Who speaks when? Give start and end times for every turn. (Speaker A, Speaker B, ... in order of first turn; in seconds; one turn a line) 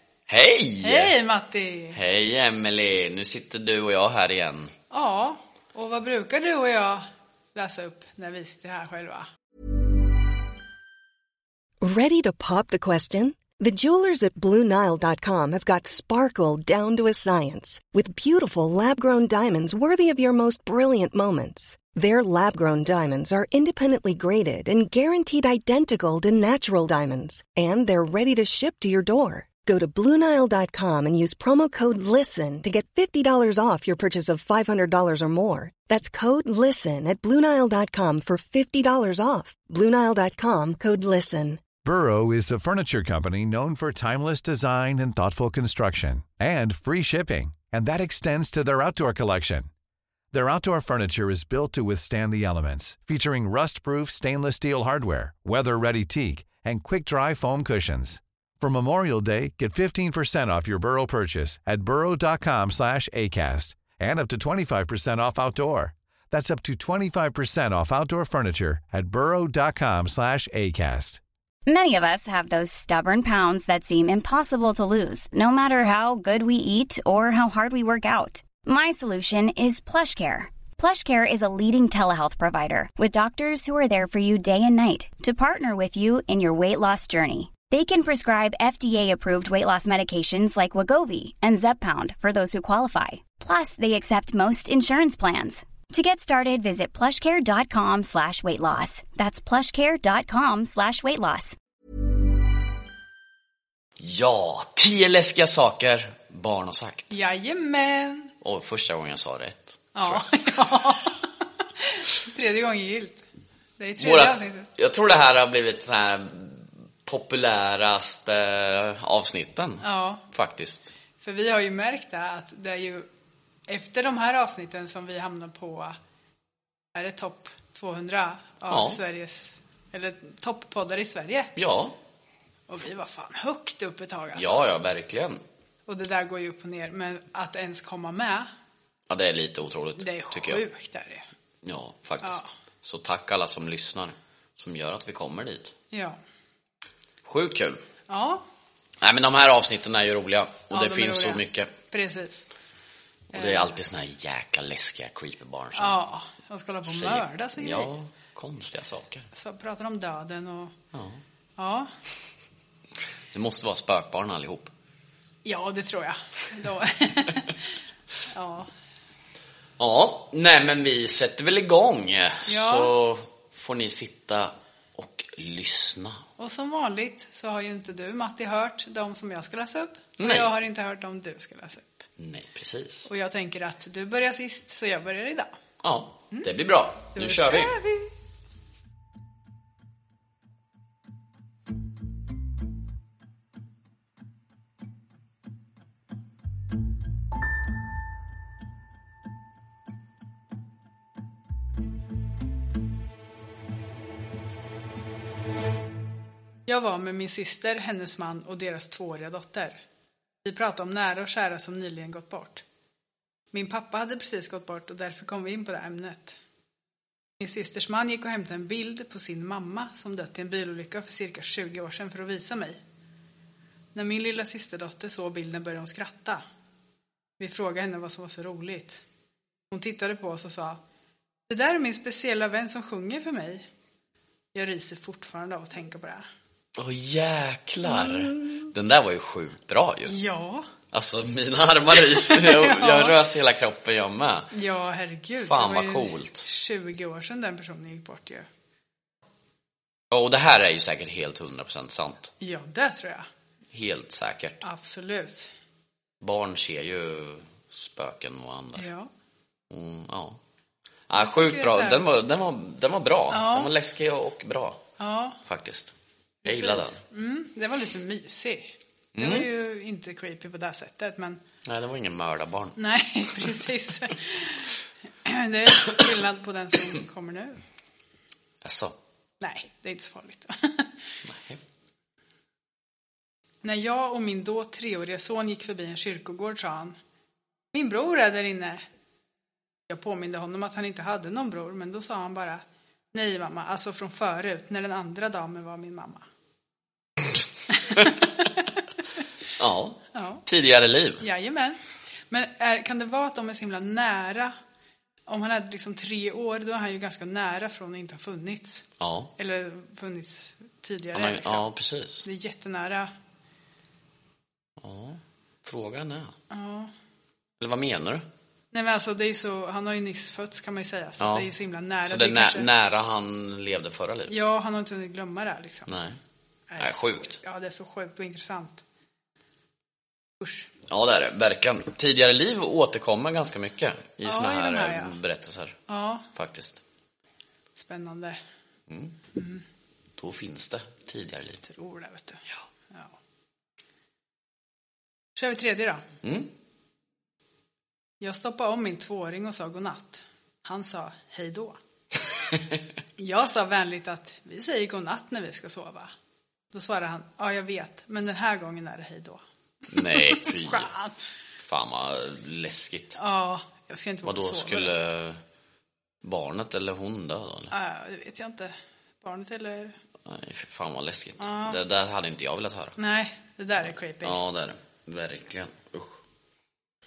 Speaker A: 0.3-1.2
Speaker B: 0.8-2.0
Speaker A: 1.9-4.7
Speaker B: 4.9-9.3
Speaker C: 11.8-41.6
Speaker D: 41.8-49.7
Speaker D: 50.3-71.2
Speaker E: 71.7-101.5
Speaker A: 104.0-107.1
Speaker B: 107.1-108.3
Speaker A: 108.4-110.5
Speaker B: 110.0-113.2
Speaker B: 113.8-114.7
Speaker A: 114.0-120.9
Speaker B: 119.8-120.2
Speaker B: 121.2-123.1
Speaker B: 123.7-126.0
Speaker B: 126.9-131.5
Speaker A: 128.7-129.0
Speaker A: 131.6-131.9
Speaker B: 132.7-134.6
Speaker A: 134.3-135.4
Speaker B: 135.9-138.5
Speaker A: 139.1-140.6
Speaker B: 140.0-141.2
Speaker A: 141.6-145.7
Speaker B: 142.2-142.5
Speaker B: 145.9-146.2
Speaker A: 147.2-147.8
Speaker B: 148.1-148.4
Speaker A: 149.0-151.7
Speaker B: 150.7-152.5
Speaker B: 153.3-153.8
Speaker A: 153.3-156.0
Speaker B: 155.8-157.9
Speaker A: 156.8-159.3
Speaker B: 159.3-160.7
Speaker A: 160.9-161.2
Speaker B: 161.6-161.9
Speaker A: 163.3-164.7
Speaker B: 165.4-167.6
Speaker B: 168.3-168.7
Speaker A: 169.8-176.2
Speaker B: 172.4-172.9
Speaker B: 176.4-181.9
Speaker A: 180.2-180.5
Speaker A: 182.2-183.1
Speaker B: 183.1-185.5
Speaker A: 185.8-187.8
Speaker B: 187.1-188.1
Speaker B: 206.7-209.8
Speaker B: 210.4-212.6
Speaker B: 213.5-216.4
Speaker B: 217.4-222.8
Speaker B: 223.9-226.4
Speaker B: 227.4-229.0
Speaker B: 229.7-230.8
Speaker B: 231.5-233.7
Speaker B: 234.5-236.2
Speaker A: 236.8-240.1
Speaker B: 237.9-238.7
Speaker B: 240.1-240.7
Speaker A: 240.9-244.5
Speaker B: 242.2-243.2
Speaker B: 244.5-248.4
Speaker A: 245.4-246.4
Speaker A: 250.1-252.3
Speaker B: 252.4-253.3
Speaker A: 253.7-254.6
Speaker B: 254.6-255.5
Speaker A: 256.2-258.9
Speaker B: 258.8-259.1
Speaker A: 259.7-260.4
Speaker A: 261.1-264.8
Speaker B: 261.2-262.0
Speaker B: 263.3-263.7
Speaker B: 265.0-265.4
Speaker A: 265.4-265.9
Speaker A: 266.4-267.0
Speaker B: 266.4-271.4
Speaker A: 269.1-269.5
Speaker A: 271.6-272.8
Speaker B: 272.8-274.7
Speaker B: 275.2-277.6
Speaker A: 278.6-278.9
Speaker B: 279.4-280.9
Speaker A: 281.2-281.6
Speaker B: 283.6-286.9
Speaker B: 287.7-288.8
Speaker B: 289.9-296.2
Speaker B: 297.7-298.1
Speaker A: 297.9-298.3
Speaker A: 299.6-301.2
Speaker B: 300.1-300.4
Speaker B: 301.2-304.5
Speaker B: 305.3-308.8
Speaker A: 309.0-309.3
Speaker B: 309.4-311.7
Speaker A: 311.1-312.2
Speaker B: 312.2-313.1
Speaker A: 314.8-316.3
Speaker B: 316.5-316.9
Speaker A: 317.6-318.2
Speaker B: 318.7-322.7
Speaker A: 321.2-321.5
Speaker A: 322.0-324.3
Speaker B: 324.3-325.9
Speaker A: 325.9-326.2
Speaker B: 326.7-328.8
Speaker A: 326.8-327.4
Speaker B: 330.4-330.7
Speaker A: 330.9-335.8
Speaker B: 334.2-335.2
Speaker B: 335.9-336.3
Speaker A: 336.3-336.8
Speaker B: 337.8-338.4
Speaker A: 338.9-339.1
Speaker B: 339.3-339.6
Speaker A: 340.2-341.6
Speaker B: 341.6-343.1
Speaker B: 345.4-346.0
Speaker A: 346.2-346.5
Speaker B: 348.2-351.8
Speaker B: 353.2-356.1
Speaker B: 356.7-361.1
Speaker A: 359.9-360.9
Speaker A: 361.6-363.2
Speaker B: 363.2-364.9
Speaker A: 364.2-365.4
Speaker A: 366.2-367.7
Speaker B: 367.7-370.0
Speaker A: 370.2-372.9
Speaker B: 371.4-371.8
Speaker B: 373.0-374.4
Speaker A: 374.2-376.2